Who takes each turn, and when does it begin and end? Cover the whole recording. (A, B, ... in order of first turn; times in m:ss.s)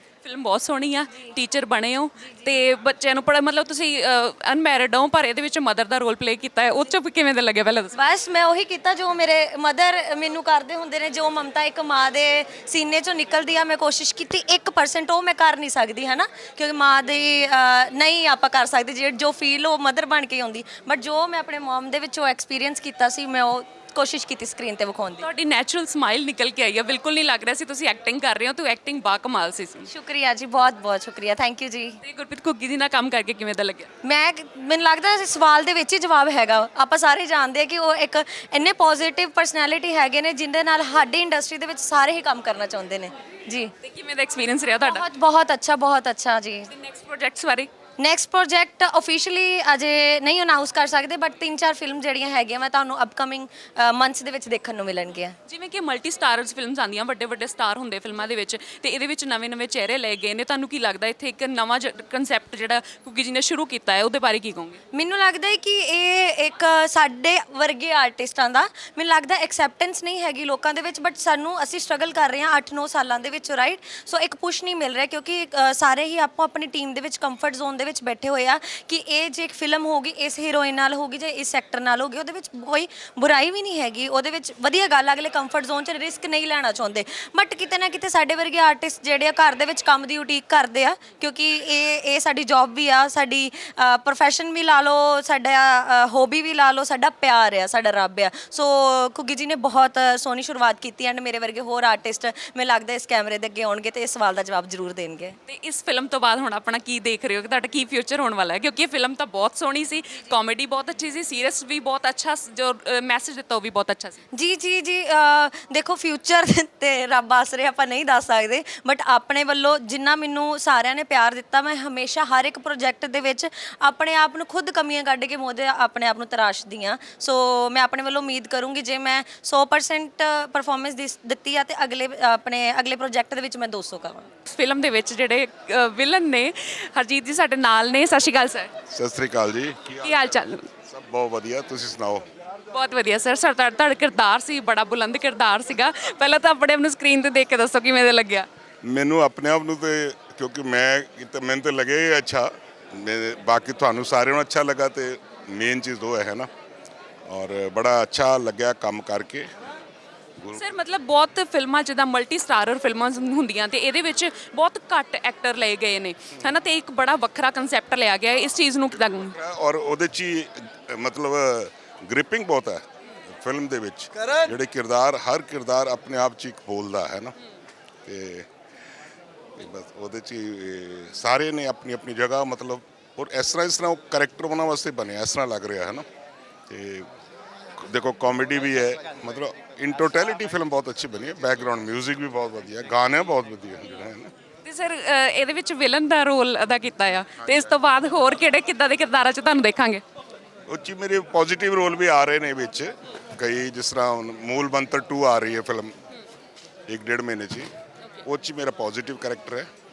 0:00.2-0:07.9 A
0:07.9-0:25.2 B
0:25.2-0:29.9 A
0:29.9-0:32.0 B
0:32.0-0:33.9 A
0:34.0-0:43.7 B
0:43.8-0:45.0 A
0:44.8-0:46.7 B
0:46.7-0:47.7 A
0:48.0-0:55.4 B
0:55.4-1:04.8 A
1:04.9-1:45.4 B
1:45.4-1:54.2 A
1:54.3-2:14.3 B
2:14.4-2:18.7 A
2:18.9-2:22.2 C
2:20.0-2:20.7 A
2:22.7-2:28.5 A
2:28.8-2:36.5 C
2:37.3-2:39.5 C
2:40.4-2:40.7 C
2:40.6-2:49.3 A
2:48.5-2:57.3 C
2:58.0-2:58.5 C
2:59.6-3:06.0 C
3:06.7-3:07.1 C
3:07.8-3:14.3 C
3:14.6-3:20.0 A
3:20.7-3:25.9 C
3:26.9-3:27.7 C
3:28.2-3:29.7 C